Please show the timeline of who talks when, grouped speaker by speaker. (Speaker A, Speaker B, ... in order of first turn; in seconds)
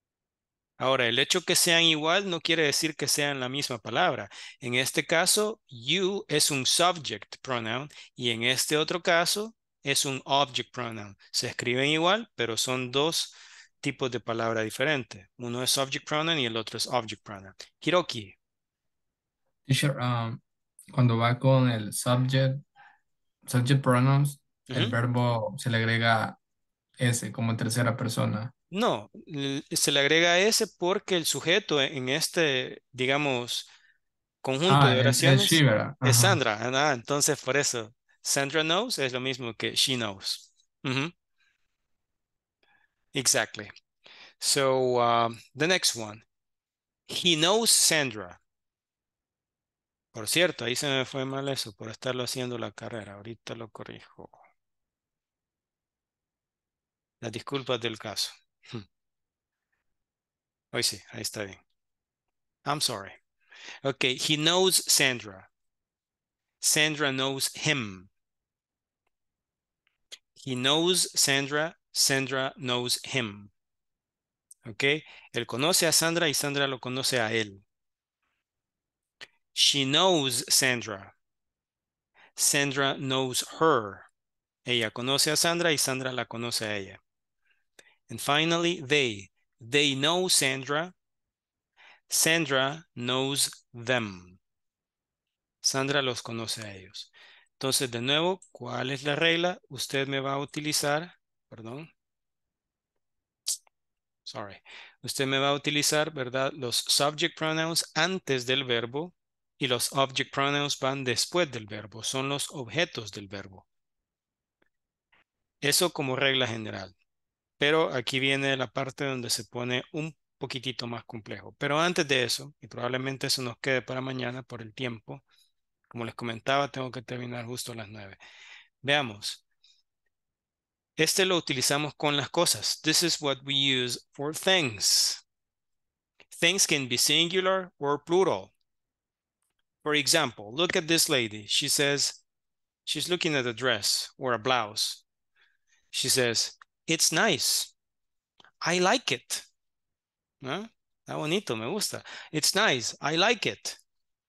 Speaker A: 0.8-18.3, 24.7-25.0, 28.7-33.7, 34.4-41.1, 43.1-43.7, 44.4-46.2, 47.1-48.4, 50.1-54.4, 57.2-58.9, 60.7-61.6, 62.6-63.2, 63.8-65.5, 66.6-68.1, 70.4-73.5, 74.7-77.6, 79.5-81.1, 82.4-84.1, 84.7-87.0, 88.1-90.9, 92.1-94.4, 95.6-101.9, 104.2-113.6, 115.6-116.9, 117.6-125.2, 125.9-128.2, 128.8-129.4, 131.0-135.2, 136.3-138.5, 139.8-142.2, 142.8-145.0, 145.9-147.7, 148.6-149.4, 150.4-153.8
Speaker B: 19.7-20.4, 20.9-22.6, 23.4-26.4, 27.0-28.5, 34.7-36.4